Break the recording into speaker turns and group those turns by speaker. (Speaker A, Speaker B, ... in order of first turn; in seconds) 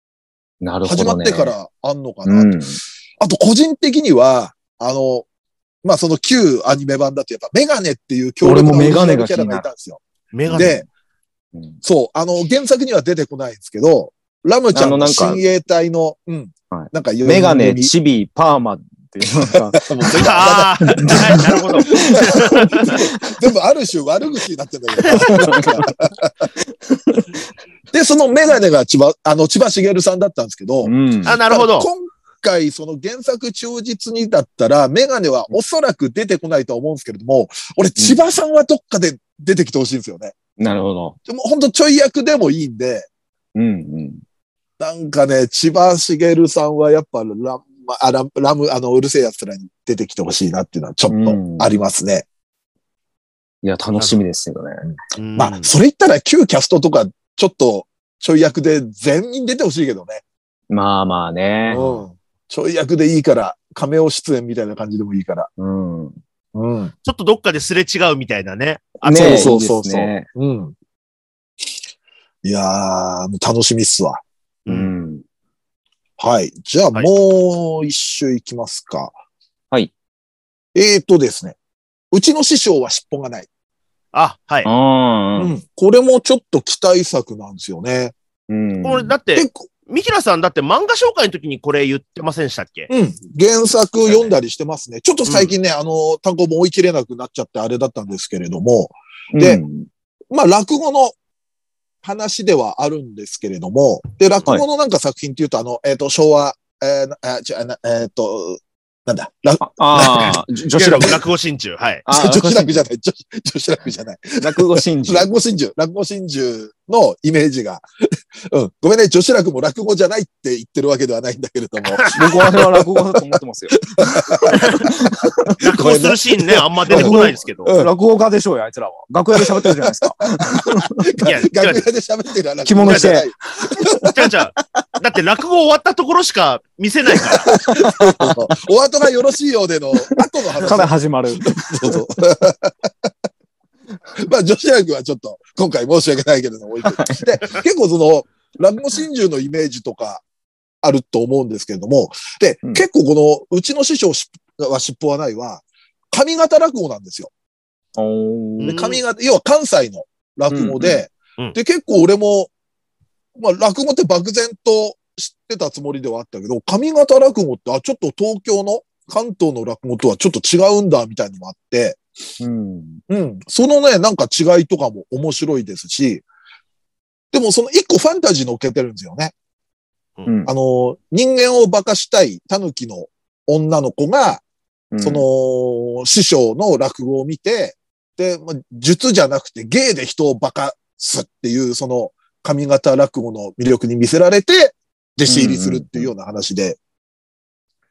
Speaker A: 0.6-1.5, 2.2-2.8, 8.4-9.7, 11.5-11.8, 14.7-15.4, 16.7-23.3, 25.1-25.9, 26.9-27.3, 30.8-31.3, 40.6-41.2, 43.5-44.2, 51.1-51.7, 53.6-54.9, 60.7-61.8, 65.6-66.2, 69.0-70.3, 74.7-75.2, 84.6-85.5, 88.5-89.1, 99.3-99.9, 109.6-111.2, 112.0-112.8, 114.4-115.3, 122.1-125.5, 126.9-130.9, 132.6-134.1, 137.3-138.5, 140.1-142.0, 146.8-147.2, 157.9-158.7, 160.5-161.0, 172.4-173.0, 180.2-180.5, 184.9-185.2, 195.3-196.1
Speaker B: 0.8-2.6, 3.2-5.2, 5.8-10.8, 11.8-17.9, 19.8-26.5, 27.9-40.3, 41.3-43.1, 44.8-52.2, 55.4-60.2, 61.7-65.5, 66.5-66.9, 69.1-70.7, 72.4-74.2, 76.2-79.2, 80.7-81.6, 82.1-83.5, 85.4-88.1, 92.9-99.6, 100.3-101.2, 102.0-110.4, 112.1-123.2, 124.0-124.5, 125.4-127.9, 129.3-134.3, 137.3-140.9, 141.4-143.1, 144.1-150.2, 150.8-157.3, 158.6-162.5, 163.3-172.0, 173.1-176.2, 177.3-179.3, 180.5-184.4, 185.0-196.8
Speaker C: 10.3-10.8, 20.1-23.0, 25.0-25.6, 31.2-31.9, 54.0-54.2, 55.2-55.7, 67.0-69.5, 74.6-74.9, 84.1-84.7, 88.8-92.9, 94.0-94.3, 95.2-95.5, 110.8-112.0, 121.9-122.2, 124.5-124.8, 125.6-127.7, 131.2-131.8, 132.8-133.2, 134.1-137.5, 158.6-159.0